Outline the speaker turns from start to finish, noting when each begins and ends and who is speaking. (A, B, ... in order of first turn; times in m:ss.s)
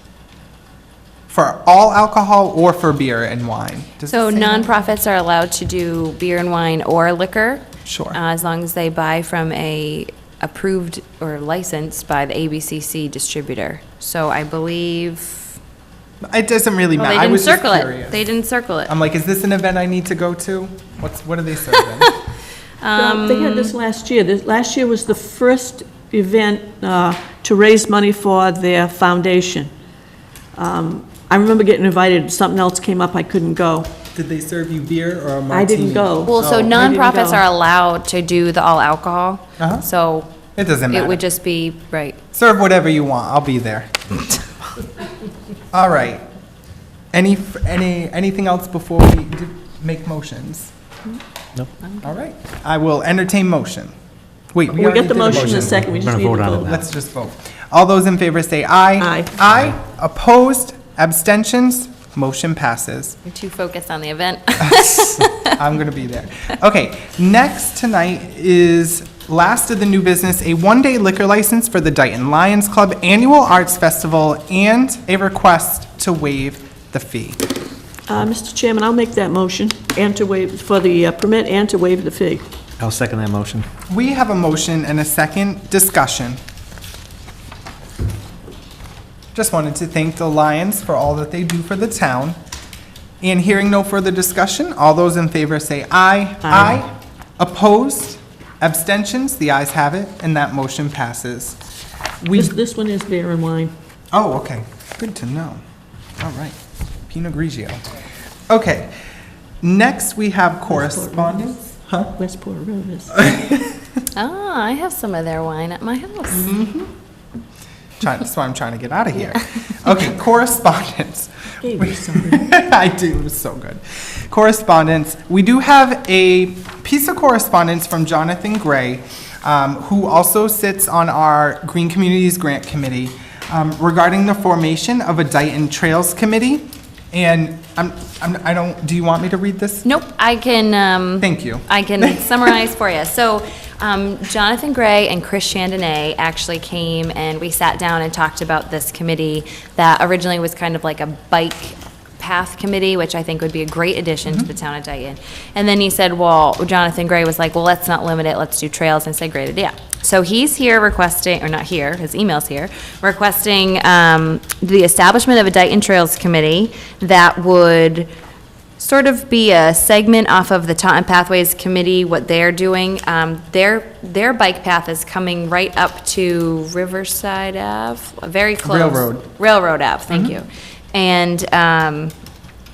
0:01.3-0:04.7 A
0:04.1-0:15.6 B
0:07.9-0:08.2 A
0:16.3-0:18.3 A
0:17.0-0:18.9 B
0:18.9-0:22.1 A
0:22.8-0:23.7 B
0:23.0-0:29.7 C
0:30.5-0:33.9 C
0:34.1-0:36.9 A
0:35.5-0:37.4 C
0:36.2-0:40.4 B
0:39.6-0:39.9 A
0:40.6-0:41.2 A
0:40.9-0:42.2 B
0:42.3-0:44.2 A
0:45.7-0:46.3 A
0:47.1-0:50.7 A
0:52.0-0:53.9 A
0:54.5-0:55.9 A
0:54.7-0:56.8 C
0:55.3-0:56.8 D
0:56.6-1:03.2 A
0:59.0-0:59.3 C
1:03.2-1:05.6 B
1:04.7-1:17.4 A
1:18.1-1:22.4 C
1:22.8-1:23.7 D
1:23.9-1:26.4 A
1:29.3-1:32.4 A
1:33.2-1:41.6 A
1:36.4-1:36.8 C
1:42.2-1:42.5 A
1:42.3-1:43.7 C
1:44.1-1:45.6 A
1:46.2-1:47.8 A
1:48.5-1:49.0 A
1:49.6-1:52.1 A
1:50.7-1:51.6 C
1:52.2-1:53.3 C
1:53.2-1:53.8 A
1:54.1-1:56.5 B
1:56.3-1:56.9 A
1:58.0-2:19.9 A
1:59.3-2:00.1 B
2:01.6-2:02.5 C
2:19.8-2:48.1 B
2:21.2-2:22.4 A
2:48.8-3:02.1 B
2:58.6-2:59.3 A
3:00.1-3:00.4 A